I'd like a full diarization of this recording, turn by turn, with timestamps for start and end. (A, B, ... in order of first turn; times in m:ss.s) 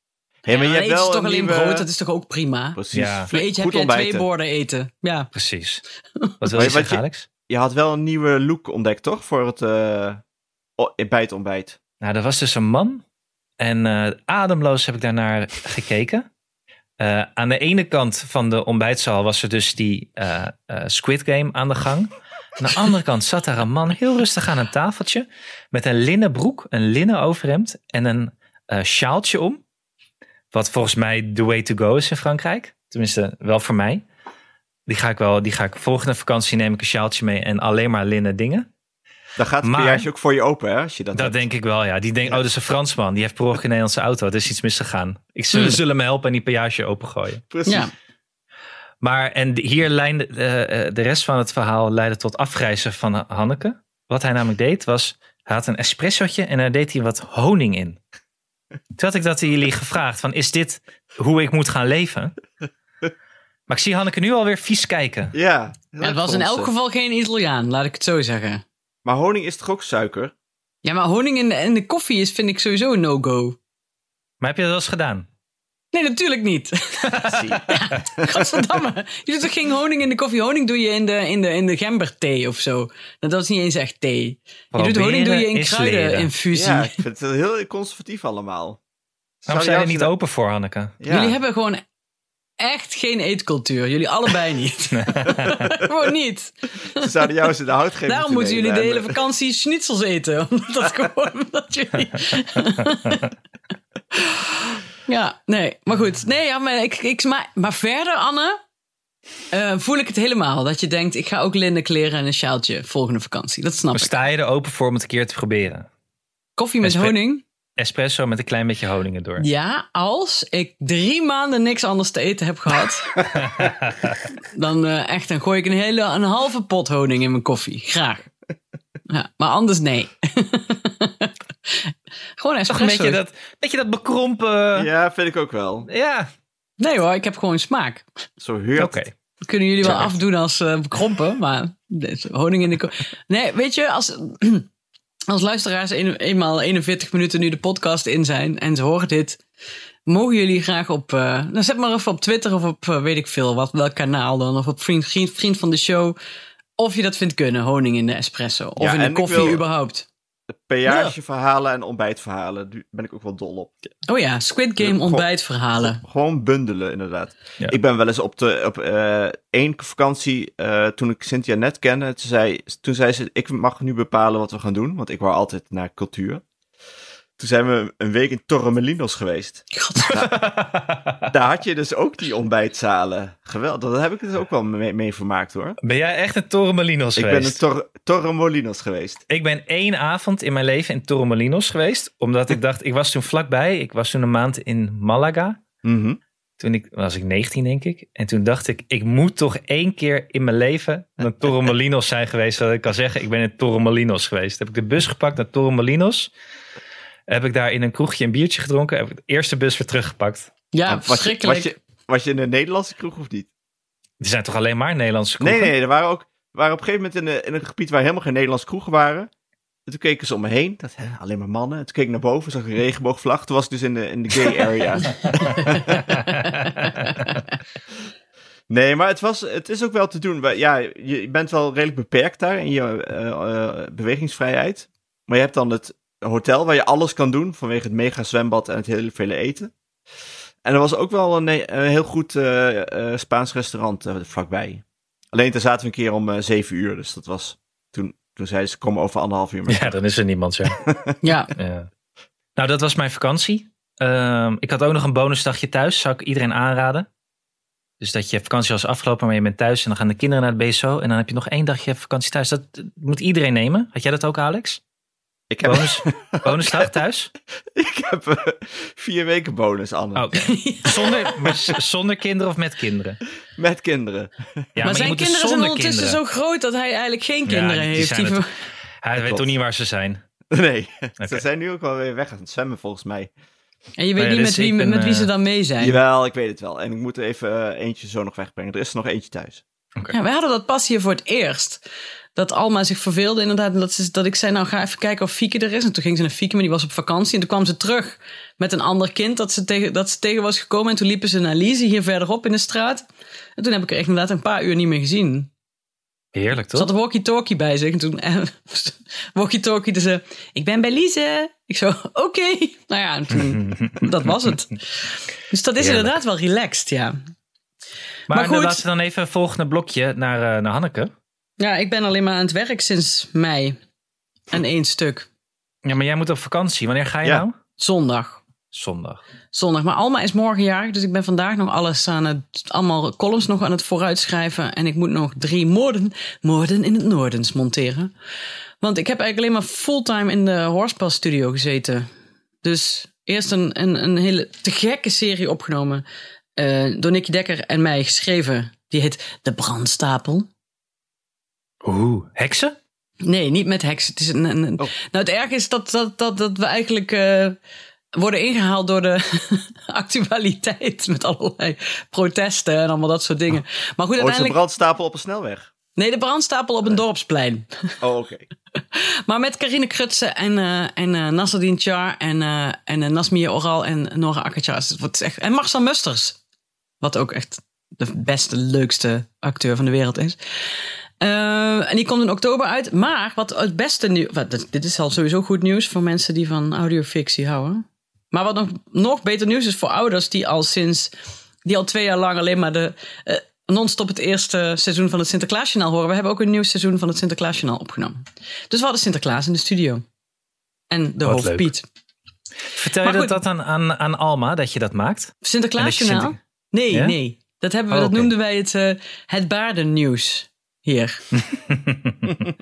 0:00.4-0:01.9 A
0:00.5-0:02.8 B
0:02.8-0:04.3 A
0:02.9-0:03.3 C
0:03.3-0:05.3 B
0:05.3-0:05.8 C
0:06.4-0:07.3 C
0:06.5-0:10.2 A
0:10.8-0:11.8 A
0:12.0-0:13.0 C
0:13.6-0:16.3 C
0:17.0-0:29.6 C
0:30.5-0:34.0 C
0:34.9-0:38.7 C
0:39.4-0:41.4 A
0:39.6-0:40.1 C
0:41.2-0:47.4 C
0:47.5-0:47.9 A
0:47.7-0:47.9 B
0:49.0-0:58.0 C
0:59.0-1:02.3 C
1:03.7-1:05.4 C
1:05.3-1:06.7 A
1:06.0-1:08.6 B
1:09.0-1:10.3 A
1:10.8-1:13.6 B
1:14.4-1:15.3 C
1:15.9-1:27.0 B
1:17.1-1:17.6 C
1:17.3-1:18.4 A
1:24.7-1:26.3 C
1:26.5-1:28.8 A
1:29.4-1:30.1 A
1:29.5-1:31.0 C
1:31.0-1:31.4 A
1:31.1-1:31.8 B
1:32.6-1:37.1 B
1:34.9-1:35.8 C
1:37.0-1:39.2 A
1:38.1-1:43.3 B
1:44.2-1:48.6 B
1:49.5-1:54.2 B
1:53.9-1:55.9 C
1:56.6-1:57.4 B
1:56.8-1:57.2 C
1:57.8-1:59.4 C
1:59.4-2:03.3 B
2:03.4-2:04.2 C
2:04.4-2:08.3 B
2:09.1-2:13.2 B
2:12.7-2:14.9 C
2:14.8-2:15.9 A
2:15.9-2:16.3 C
2:16.8-2:18.1 B
2:18.4-2:19.0 A
2:18.8-2:19.1 C
2:19.4-2:24.7 B
2:25.3-2:29.4 B
2:30.1-2:36.2 B
2:36.8-2:40.1 B
2:38.8-2:39.6 A
2:40.5-2:43.7 A
2:44.1-2:46.0 B
2:44.8-2:45.3 A
2:45.8-2:56.4 A
2:57.4-3:00.4 A
2:59.7-3:00.3 B
3:00.2-3:01.3 C
3:01.3-3:05.8 A
3:05.8-3:07.6 C
3:07.2-3:09.2 A
3:09.3-3:15.6 C
3:15.8-3:16.2 A
3:16.6-3:26.3 C
3:27.3-3:30.5 C
3:30.7-3:31.7 B
3:30.9-3:33.5 A
3:34.2-3:35.7 C
3:35.4-3:39.3 A
3:39.9-3:46.2 A
3:45.3-3:47.1 C
3:45.4-3:47.4 B
3:48.7-3:59.7 A
4:00.6-4:09.9 A
4:09.7-4:10.8 C
4:10.7-4:11.1 A
4:11.2-4:11.5 B
4:11.6-4:11.9 C
4:12.6-4:17.1 C
4:18.0-4:24.8 C
4:25.5-4:26.9 A
4:25.6-4:27.3 C
4:27.7-4:30.3 A
4:30.2-4:33.2 C
4:30.3-4:31.7 B
4:33.6-4:34.9 A
4:34.8-4:36.2 C
4:34.8-4:38.5 B
4:37.5-4:38.4 C
4:39.0-4:40.2 C
4:39.2-4:39.5 A
4:40.5-4:43.3 A
4:44.0-4:46.0 B
4:44.2-4:45.3 C
4:45.8-4:49.6 A
4:50.1-4:51.8 B
4:52.4-5:03.0 B
5:03.6-5:05.5 B
5:06.3-5:06.9 C
5:06.7-5:17.2 B
5:13.4-5:14.4 C
5:15.8-5:16.1 C
5:18.3-5:21.1 C
5:18.3-5:18.8 B
5:21.6-5:23.8 B
5:24.5-5:25.3 B
5:25.8-5:27.6 C
5:27.8-5:28.4 B
5:28.7-5:29.2 C
5:29.5-5:38.1 B
5:38.8-5:42.1 B
5:42.6-5:46.0 B
5:46.6-5:50.5 B
5:51.8-5:52.8 C
5:53.2-5:57.6 B
5:58.2-6:04.6 B
6:04.2-6:05.7 A
6:06.0-6:08.0 B
6:08.0-6:08.5 A
6:08.8-6:16.4 B
6:17.0-6:20.4 B
6:21.2-6:31.1 B
6:31.6-6:40.0 B
6:40.9-6:41.8 B
6:41.2-6:41.7 C
6:42.8-6:46.4 C
6:43.0-6:43.4 B
6:45.4-6:51.3 B
6:47.9-6:48.3 C
6:51.4-6:52.4 C